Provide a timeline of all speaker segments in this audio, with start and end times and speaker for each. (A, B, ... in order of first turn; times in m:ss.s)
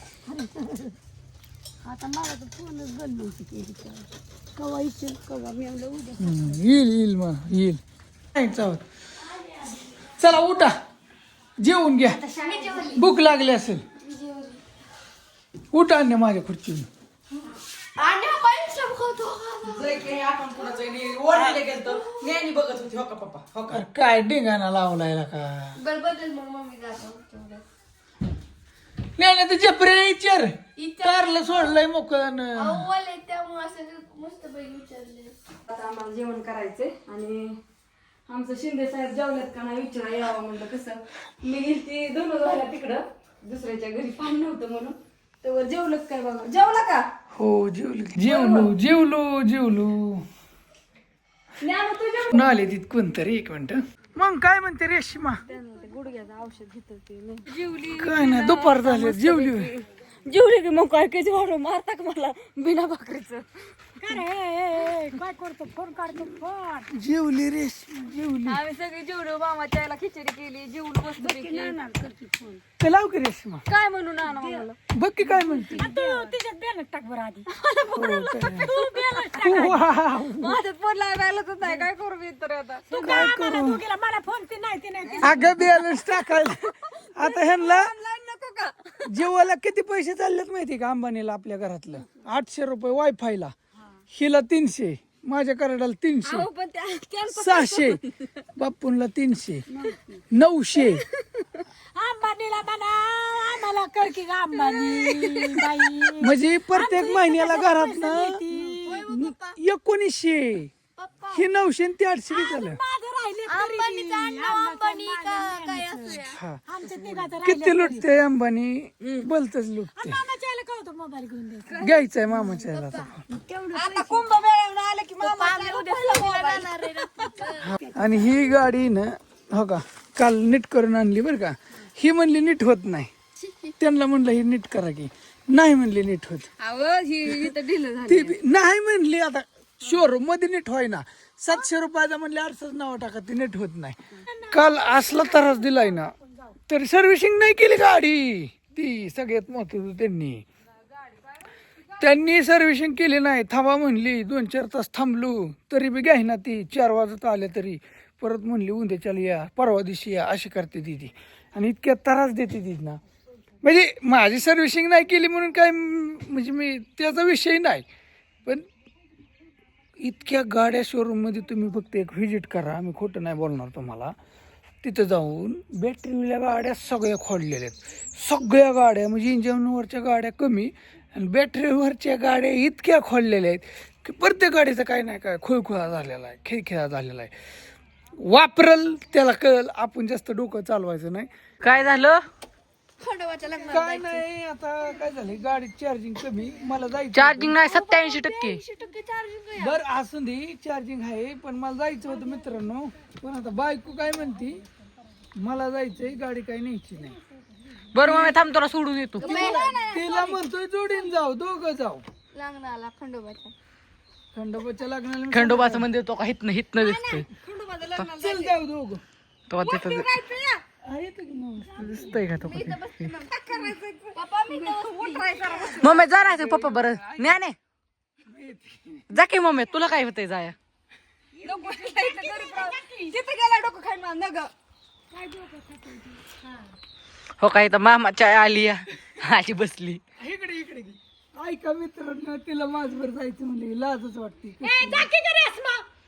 0:00.3-0:01.0 A
0:01.8-0:06.6 A
0:06.2-0:07.8 B
0:08.3-0:08.8 B
0:10.2-0:10.8 B
0:11.6-0:12.2 B
0:12.3-0:13.0 A
0:12.4-0:13.0 C
0:12.9-0:13.8 B
0:14.0-0:14.6 C
0:15.7-0:16.9 B
0:18.0-0:20.1 C
0:19.7-0:23.8 D
0:21.9-0:22.2 C
0:23.7-0:25.8 B
0:25.8-0:27.6 C
0:29.2-0:32.9 B
0:30.8-0:31.3 C
0:32.6-0:37.6 C
0:38.3-0:47.1 C
0:47.3-0:50.2 B
0:48.2-0:48.8 C
0:51.6-0:52.5 C
0:52.3-0:55.4 B
0:55.4-1:03.5 C
0:57.9-0:59.7 B
1:04.0-1:06.9 E
1:06.9-1:08.6 B
1:08.5-1:11.8 C
1:11.2-1:12.6 A
1:12.8-1:13.6 B
1:13.7-1:14.8 C
1:14.2-1:14.7 E
1:14.9-1:15.9 B
1:15.3-1:17.5 E
1:15.7-1:16.3 A
1:17.5-1:19.5 C
1:18.0-1:18.7 B
1:18.6-1:19.8 E
1:19.3-1:20.6 B
1:20.4-1:23.0 C
1:22.9-1:25.6 E
1:23.0-1:23.8 B
1:25.0-1:26.5 C
1:25.2-1:27.9 B
1:27.2-1:29.0 C
1:29.1-1:33.5 B
1:34.1-1:36.5 B
1:36.2-1:38.2 C
1:37.3-1:38.0 B
1:38.6-1:39.6 B
1:39.7-1:40.2 A
1:40.3-1:41.0 B
1:42.0-1:49.2 E
1:44.6-1:46.2 C
1:46.2-1:50.7 B
1:48.5-1:49.6 C
1:51.0-1:51.4 C
1:51.3-1:52.8 B
1:52.3-1:58.1 E
1:53.5-1:57.3 C
1:56.3-1:56.6 B
1:57.4-2:00.2 B
2:00.0-2:01.8 E
2:01.7-2:02.6 C
2:01.8-2:03.2 B
2:02.8-2:04.3 A
2:03.8-2:07.6 C
2:05.2-2:05.8 E
2:05.6-2:08.5 A
2:08.0-2:13.1 B
2:13.4-2:13.7 C
2:13.8-2:16.5 B
2:16.6-2:18.4 C
2:18.1-2:24.0 B
2:24.3-2:25.9 E
2:24.5-2:26.1 B
2:26.7-2:30.5 B
2:32.0-2:43.0 B
2:43.6-2:47.8 B
2:50.0-2:54.1 B
2:54.8-3:07.3 B
3:08.2-3:11.3 B
3:11.6-3:12.2 D
3:13.0-3:14.2 C
3:13.6-3:17.6 B
3:17.1-3:18.6 D
3:17.7-3:19.5 C
3:19.6-3:24.6 B
3:25.4-3:27.2 B
3:27.9-3:29.5 D
3:29.2-3:30.4 C
3:29.2-3:32.0 B
3:32.4-3:33.5 C
3:34.3-3:35.9 B
3:35.3-3:37.3 D
3:36.8-3:38.5 C
3:38.2-3:39.0 B
3:39.5-3:40.2 D
3:39.6-3:40.6 C
3:40.8-3:42.7 B
3:41.8-3:43.0 D
3:42.5-3:46.1 C
3:45.8-3:47.6 D
3:47.0-3:47.3 B
3:48.3-3:49.0 B
3:49.1-3:50.6 D
3:51.4-3:53.2 E
3:51.4-3:54.5 C
3:55.1-3:56.6 E
3:57.4-4:00.0 D
4:00.2-4:05.1 B
4:04.6-4:05.9 E